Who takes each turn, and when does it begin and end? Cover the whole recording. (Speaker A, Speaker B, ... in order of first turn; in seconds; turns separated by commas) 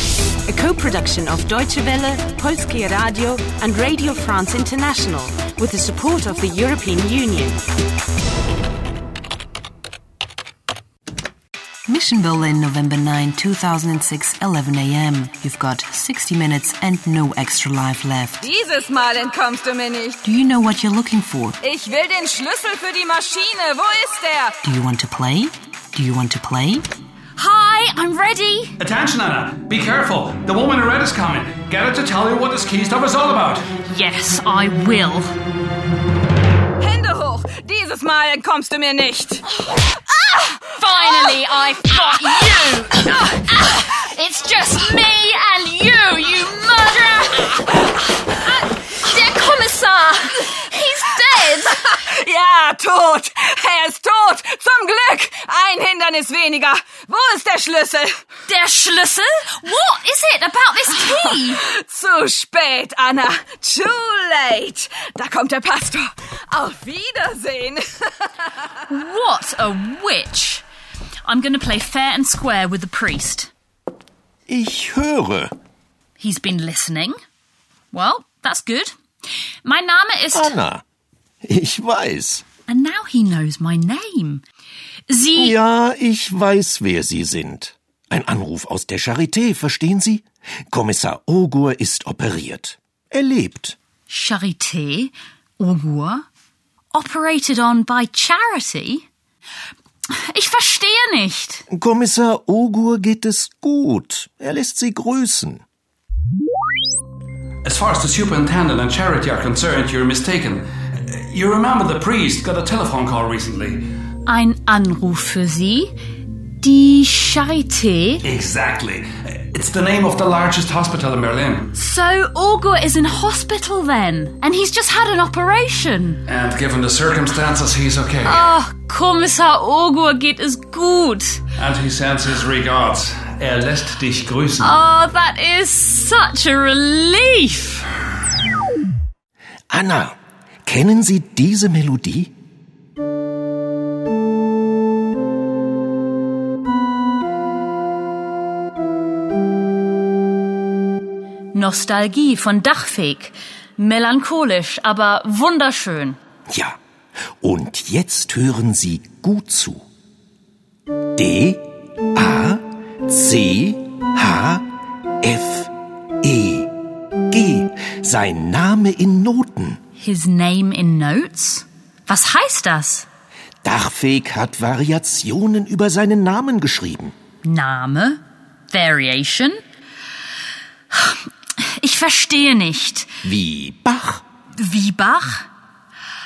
Speaker A: 0.5-7.6, Speaker B: 11.9-18.4, Speaker C: 18.4-20.3, Speaker B: 20.2-21.6, Speaker C: 21.6-24.6, Speaker B: 24.6-26.9, Speaker D: 27.4-28.7, Speaker E: 28.8-33.7, Speaker D: 33.8-35.3, Speaker C: 36.8-41.4, Speaker D: 40.7-51.9, Speaker C: 51.5-58.2, Speaker D: 58.5-61.6, Speaker C: 60.9-68.7, Speaker D: 68.8-70.6, Speaker D: 71.2-73.5, Speaker F: 74.5-75.5, Speaker D: 76.2-77.2, Speaker D: 77.9-78.9, Speaker D: 79.6-80.5, Speaker F: 80.3-80.8, Speaker F: 81.4-82.4, Speaker D: 82.7-84.4, Speaker D: 85.1-85.5, Speaker F: 85.3-93.8, Speaker D: 94.1-96.2, Speaker D: 96.9-99.0, Speaker D: 100.3-101.6, Speaker F: 101.7-105.6, Speaker E: 107.6-113.8, Speaker D: 114.2-115.9, Speaker D: 116.6-118.2, Speaker E: 118.2-121.7, Speaker D: 121.7-126.2, Speaker E: 126.3-128.5, Speaker D: 128.2-131.4, Speaker E: 131.6-134.8, Speaker D: 134.6-137.9, Speaker F: 139.7-142.3, Speaker D: 151.5-156.2, Speaker F: 156.5-156.8, Speaker F: 157.4-159.8, Speaker F: 161.2-161.6, Speaker F: 162.1-164.7, Speaker F: 165.2-166.7, Speaker F: 167.3-169.8, Speaker D: 170.0-173.1, Speaker F: 173.6-177.1, Speaker D: 177.4-179.6, Speaker D: 180.9-183.1, Speaker F: 183.2-184.2, Speaker D: 184.6-185.5